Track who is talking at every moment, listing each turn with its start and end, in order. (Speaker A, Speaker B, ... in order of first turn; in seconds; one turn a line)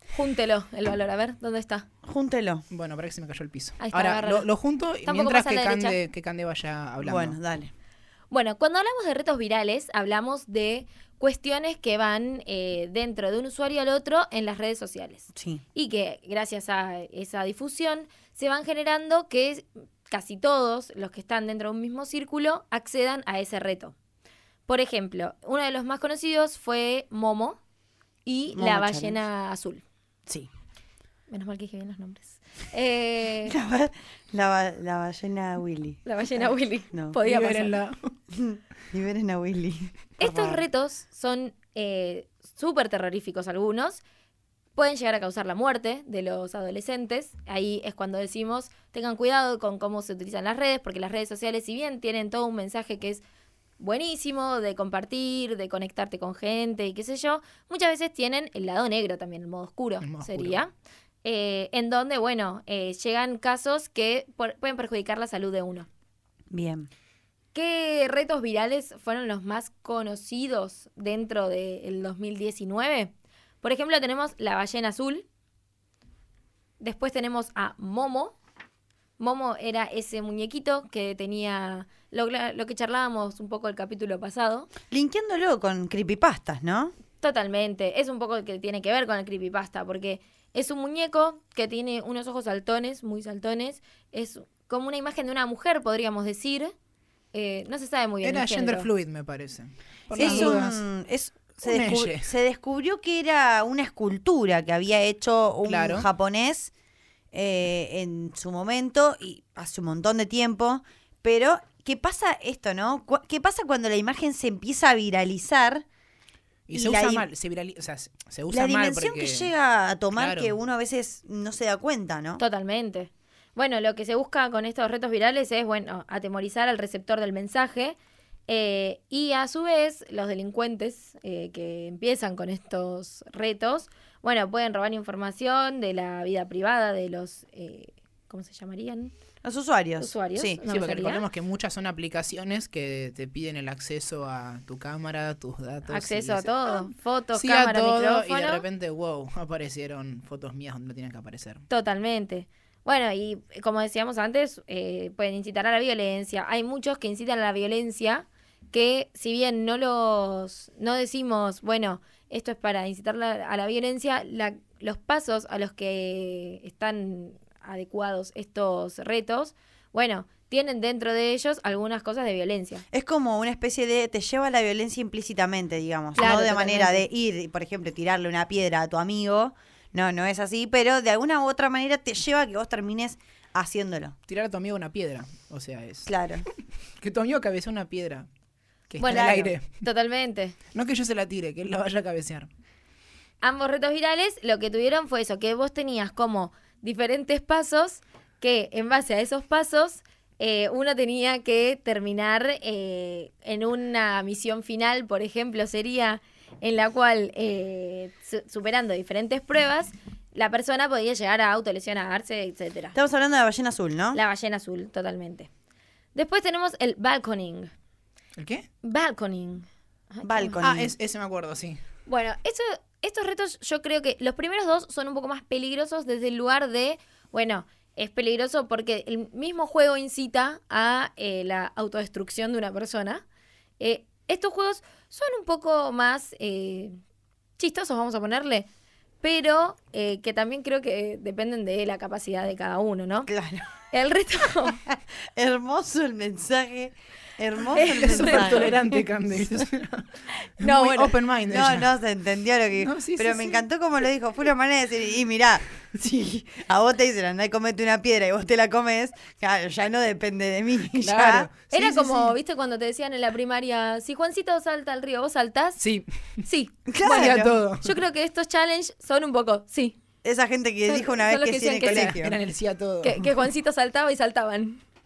Speaker A: 0.1-1.9
Speaker B: 2.0-2.6
Speaker C: 2.7-7.3
Speaker A: 3.8-4.5
Speaker A: 5.0-6.0
Speaker B: 7.0-7.7
Speaker A: 8.3-23.9
Speaker B: 15.3-15.6
Speaker A: 24.7-27.6
Speaker A: 28.2-29.8
Speaker B: 28.5-29.2
Speaker A: 31.3-33.5
Speaker B: 33.5-36.0
Speaker A: 36.0-37.8
Speaker B: 36.9-37.2
Speaker C: 37.2-38.1
Speaker B: 38.3-40.6
Speaker A: 40.2-44.0
Speaker A: 44.7-53.2
Speaker A: 53.8-60.7
Speaker C: 60.0-60.6
Speaker A: 61.2-65.9
Speaker B: 66.5-66.9
Speaker A: 67.5-75.2
Speaker A: 76.8-78.4
Speaker A: 79.2-84.7
Speaker B: 84.9-86.9
Speaker A: 87.2-96.7
Speaker A: 97.3-98.9
Speaker C: 98.2-100.8
Speaker A: 100.1-100.6
Speaker B: 100.1-106.7
Speaker C: 101.6-102.3
Speaker C: 105.7-106.1
Speaker B: 107.3-115.8
Speaker C: 116.7-119.5
Speaker B: 116.7-117.3
Speaker B: 118.5-122.4
Speaker C: 120.1-120.5
Speaker A: 122.4-139.1
Speaker B: 139.4-140.6
Speaker A: 140.0-141.3
Speaker C: 140.7-151.6
Speaker A: 145.9-148.6
Speaker A: 151.7-172.8
Speaker B: 172.9-184.1
Speaker A: 176.2-177.0
Speaker C: 184.3-186.5
Speaker B: 186.1-186.5
Speaker C: 187.0-188.3
Speaker C: 188.9-189.7
Speaker A: 189.0-190.6
Speaker B: 189.0-189.5
Speaker C: 190.7-192.5
Speaker A: 193.4-212.9
Speaker B: 212.9-214.2
Speaker A: 214.1-215.5
Speaker A: 216.1-217.7
Speaker C: 218.3-218.7
Speaker A: 218.8-220.6
Speaker B: 220.2-220.9
Speaker C: 220.6-221.8
Speaker A: 222.1-233.2
Speaker A: 233.8-237.0
Speaker A: 237.6-238.7
Speaker A: 239.2-243.3
Speaker B: 243.3-243.7
Speaker A: 243.9-244.8
Speaker B: 244.7-248.8
Speaker A: 247.8-249.0
Speaker C: 247.8-251.9
Speaker A: 250.4-251.2
Speaker B: 251.5-261.5
Speaker C: 252.8-253.6
Speaker C: 260.9-262.4
Speaker A: 261.7-265.8
Speaker C: 265.8-266.4
Speaker A: 266.4-270.0
Speaker B: 266.9-267.6
Speaker C: 267.0-267.9
Speaker B: 270.2-272.4
Speaker A: 270.9-272.2
Speaker C: 271.8-273.3
Speaker A: 273.0-274.8